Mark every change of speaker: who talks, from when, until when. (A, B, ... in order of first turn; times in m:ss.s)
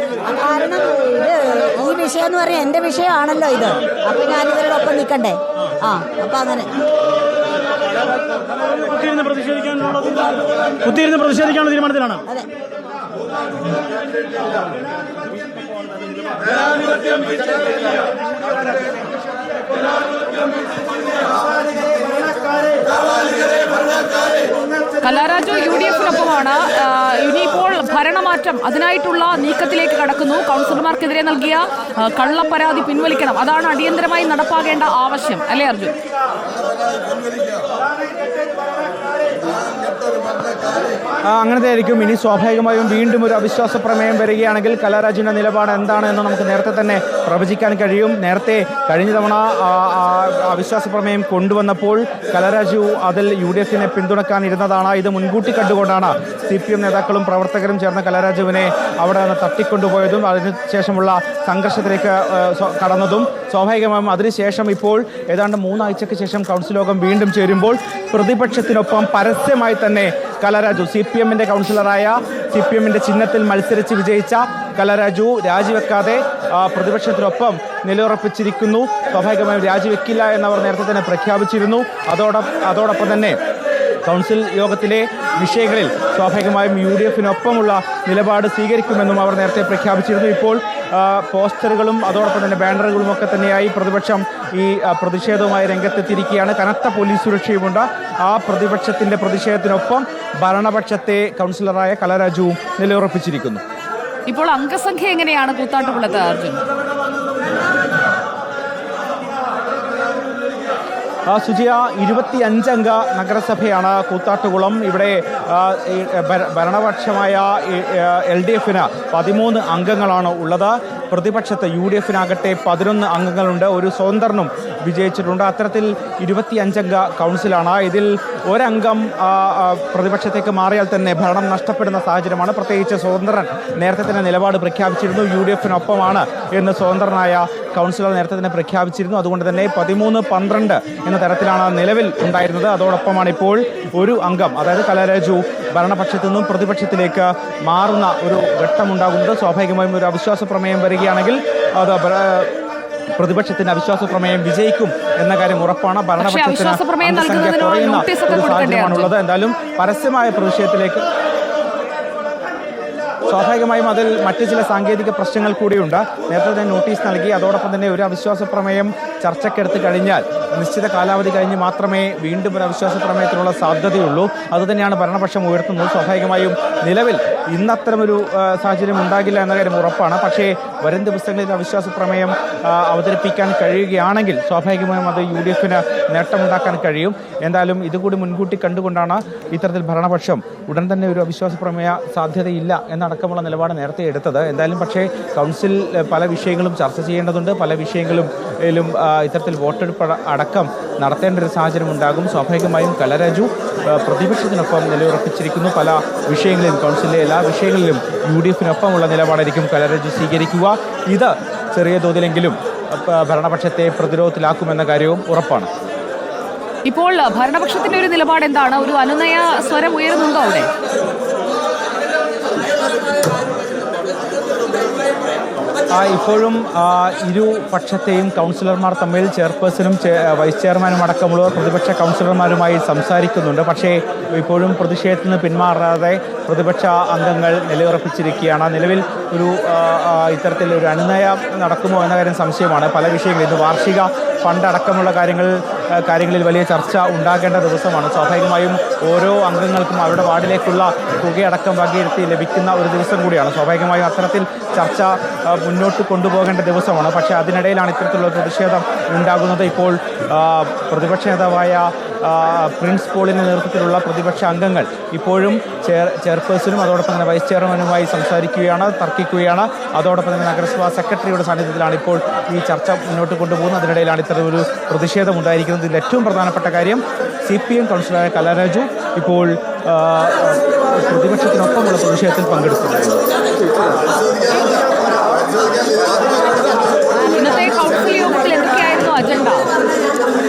0:00.2-0:06.7 A
0:08.6-0:12.2 B
0:25.0-0:35.9 C
0:41.3-1:23.4 D
1:24.0-1:43.6 D
1:44.3-1:46.6 C
1:51.3-2:32.5 D
2:33.2-2:41.0 D
2:36.2-2:39.1 C
2:43.3-3:35.7 D
3:36.9-3:40.7 C
3:45.9-4:43.2 D
4:46.5-4:48.9 A
4:47.4-4:49.7 C